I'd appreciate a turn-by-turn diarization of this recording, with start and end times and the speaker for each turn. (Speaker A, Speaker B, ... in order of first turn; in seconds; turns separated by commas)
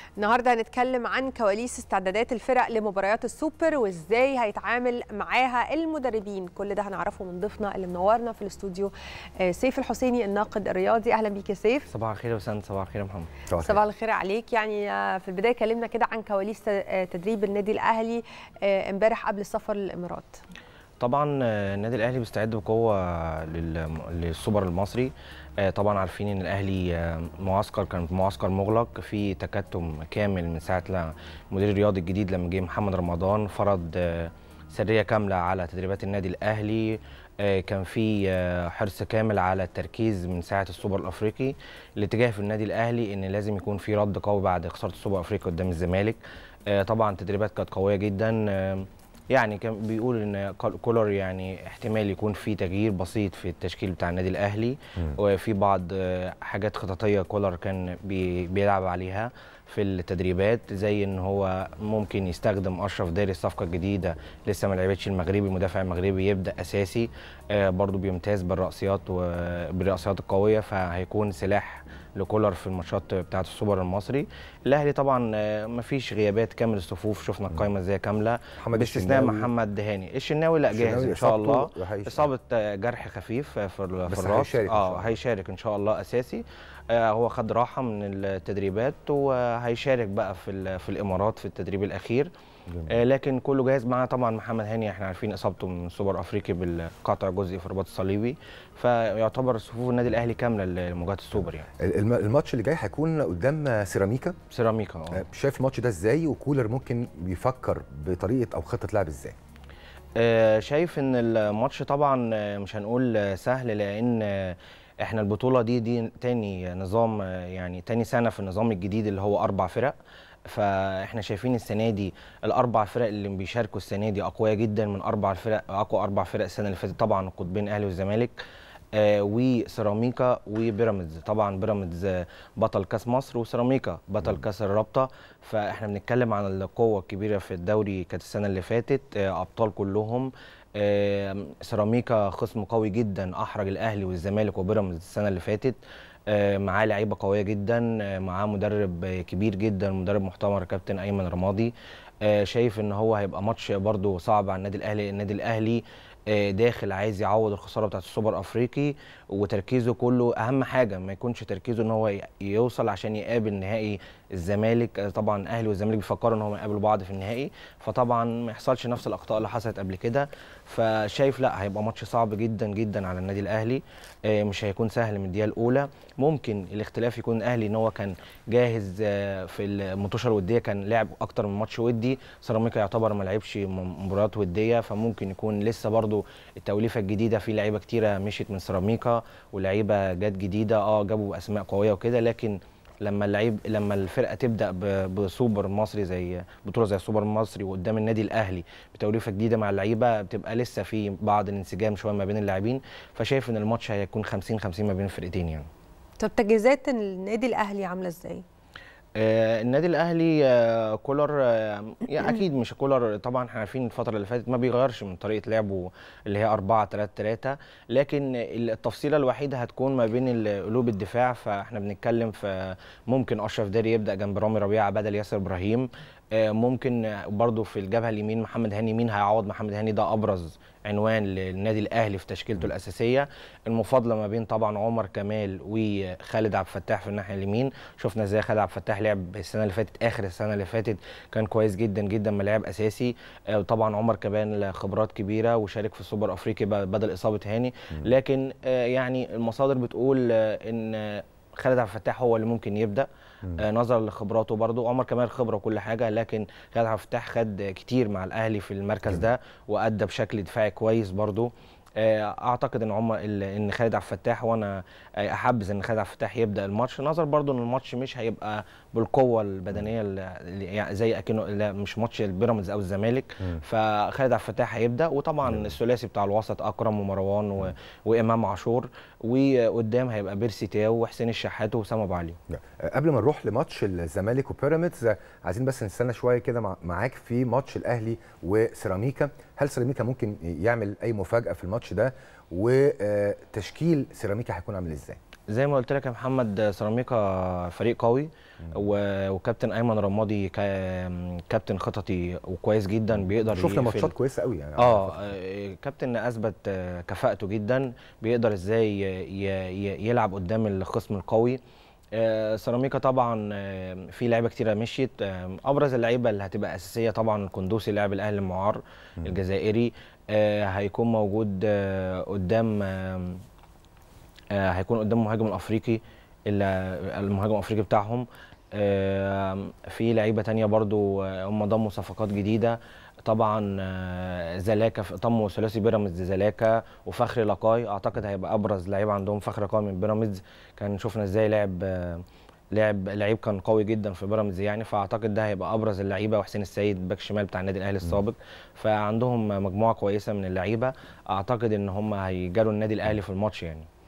Speaker A: 0.2-11.9, Speaker B: 11.9-13.3, Speaker C: 13.5-13.8, Speaker A: 13.6-20.4, Speaker B: 21.0-92.3, Speaker C: 78.6-79.5, Speaker C: 80.7-82.3, Speaker C: 84.1-85.2, Speaker C: 92.7-93.0, Speaker B: 92.9-101.7, Speaker C: 101.8-104.3, Speaker B: 104.5-105.2, Speaker C: 105.1-109.4, Speaker B: 110.2-120.0, Speaker B: 120.5-128.4, Speaker B: 128.9-151.7, Speaker B: 152.2-205.7, Speaker A: 206.2-208.4, Speaker B: 209.2-282.4, Speaker C: 275.5-275.7, Speaker C: 282.5-295.2, Speaker B: 295.5-304.1, Speaker C: 303.5-305.3, Speaker B: 304.8-311.6, Speaker B: 312.2-323.4, Speaker B: 324.5-353.9